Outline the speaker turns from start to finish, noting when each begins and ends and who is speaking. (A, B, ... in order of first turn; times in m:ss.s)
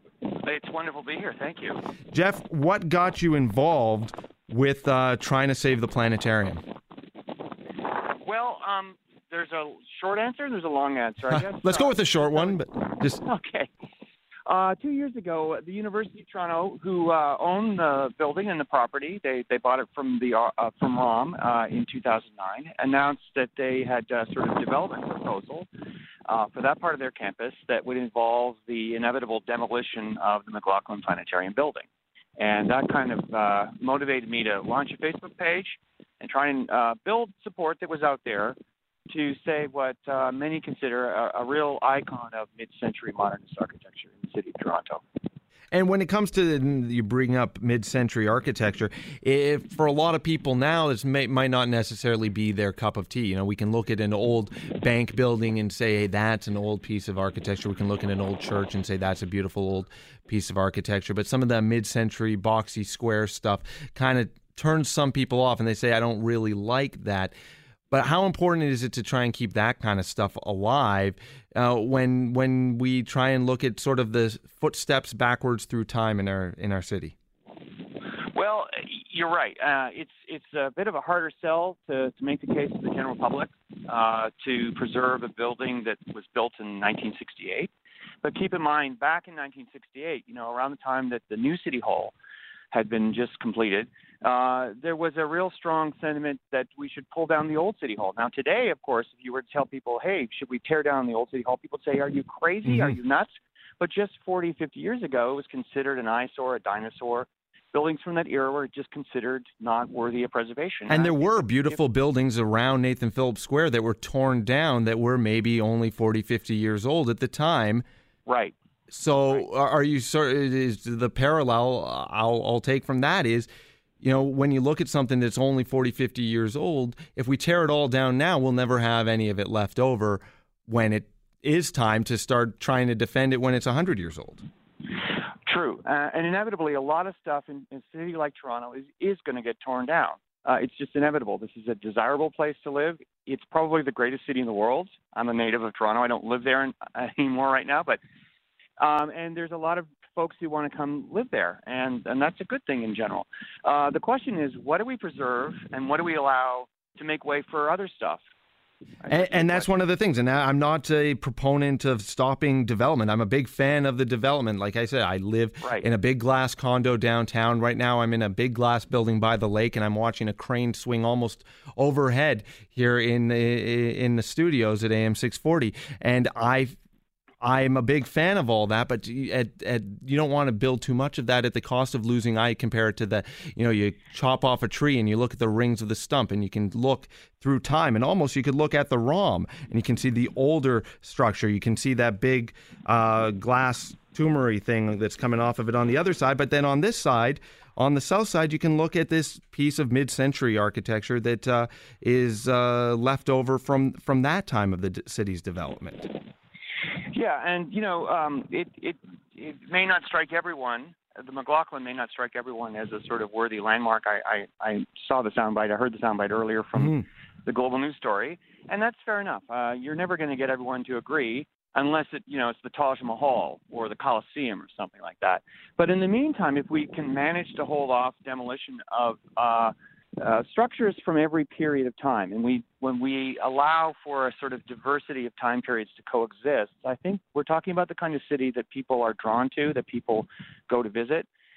0:00.3-0:01.8 A
0:02.1-0:06.6 B
0:07.9-0:12.6 A
0:11.3-0:13.2 B
0:13.2-0:13.7 A
0:14.4-0:25.7 A
0:26.2-0:31.9 A
0:32.4-0:38.6 A
0:39.1-0:45.0 A
0:45.7-1:07.3 B
1:07.9-1:17.1 B
1:18.3-1:27.7 A
1:28.2-1:32.1 A
1:32.7-1:51.8 A
1:42.7-1:42.9 B
1:50.9-1:57.8 B
1:58.2-1:58.5 A
1:58.9-2:03.5 B
1:59.2-1:59.4 A
2:04.0-2:14.4 B
2:15.4-2:28.0 A
2:28.8-2:38.2 A
2:39.0-2:39.7 A
2:39.1-2:56.8 B
2:57.4-3:26.1 B
3:27.1-4:01.3 A